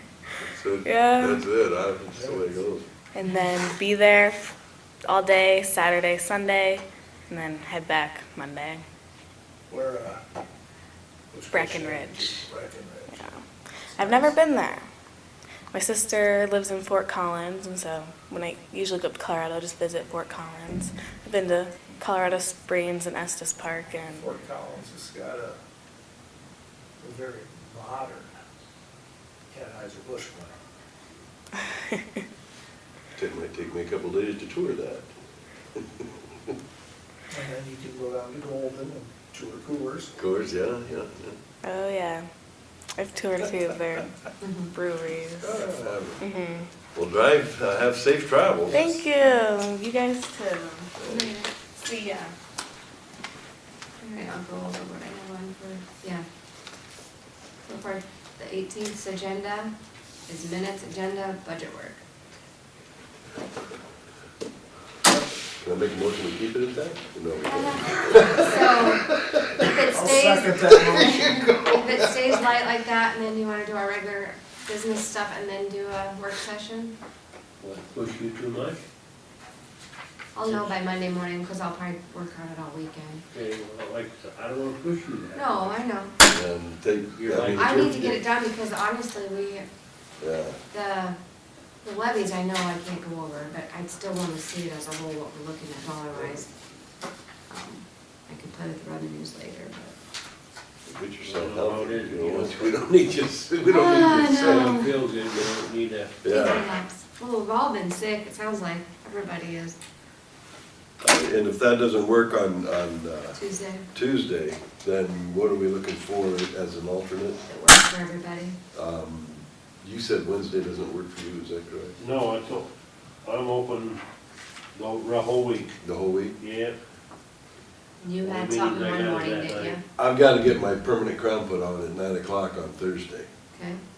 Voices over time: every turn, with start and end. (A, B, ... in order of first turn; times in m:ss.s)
0:00.4-0:02.9 A
0:00.8-0:01.4 B
0:02.1-0:02.5 C
0:03.1-0:04.5 B
0:05.1-0:08.8 B
0:09.7-0:10.2 C
0:11.3-0:13.3 C
0:11.5-0:12.4 B
0:13.1-0:13.4 B
0:13.9-0:14.4 C
0:14.0-0:14.9 B
0:15.7-0:24.2 B
0:24.1-0:25.6 C
0:27.0-0:28.3 C
0:29.5-0:30.5 C
0:33.2-0:35.1 A
0:35.8-0:36.5 A
0:37.3-0:40.2 C
0:40.2-0:41.4 A
0:41.6-0:42.2 B
0:43.0-0:45.6 B
0:44.4-0:44.7 D
0:45.4-0:46.2 A
0:46.2-0:46.7 B
0:46.9-0:48.9 A
0:48.7-0:50.9 B
0:49.0-0:49.4 D
0:51.0-0:51.3 A
0:51.0-0:52.3 D
0:54.0-0:56.2 D
0:57.6-0:59.7 D
1:00.3-1:02.0 D
1:05.6-1:09.9 A
1:07.4-1:17.0 D
1:09.9-1:11.5 C
1:10.9-1:12.4 A
1:17.6-1:18.8 E
1:20.4-1:23.2 D
1:20.4-1:20.8 E
1:23.3-1:25.8 E
1:25.3-1:26.2 D
1:26.3-1:28.2 A
1:27.2-1:28.2 E
1:27.5-1:29.7 D
1:30.2-1:30.6 A
1:30.7-1:31.2 D
1:31.8-1:36.5 D
1:37.5-1:40.0 D
1:40.8-1:44.9 A
1:41.2-1:42.8 E
1:43.6-1:44.9 D
1:44.2-1:46.2 E
1:46.2-1:46.7 A
1:46.3-1:49.8 D
1:51.0-1:53.4 A
1:53.3-1:53.9 D
1:53.9-1:57.4 A
1:57.5-1:58.6 D
1:58.7-2:02.0 A
2:02.0-2:02.7 E
2:03.2-2:04.0 E
2:04.8-2:05.8 E
2:05.8-2:06.4 A
2:06.4-2:06.8 E
2:08.0-2:09.8 D
2:08.2-2:09.8 E
2:10.0-2:13.3 A
2:13.5-2:13.8 D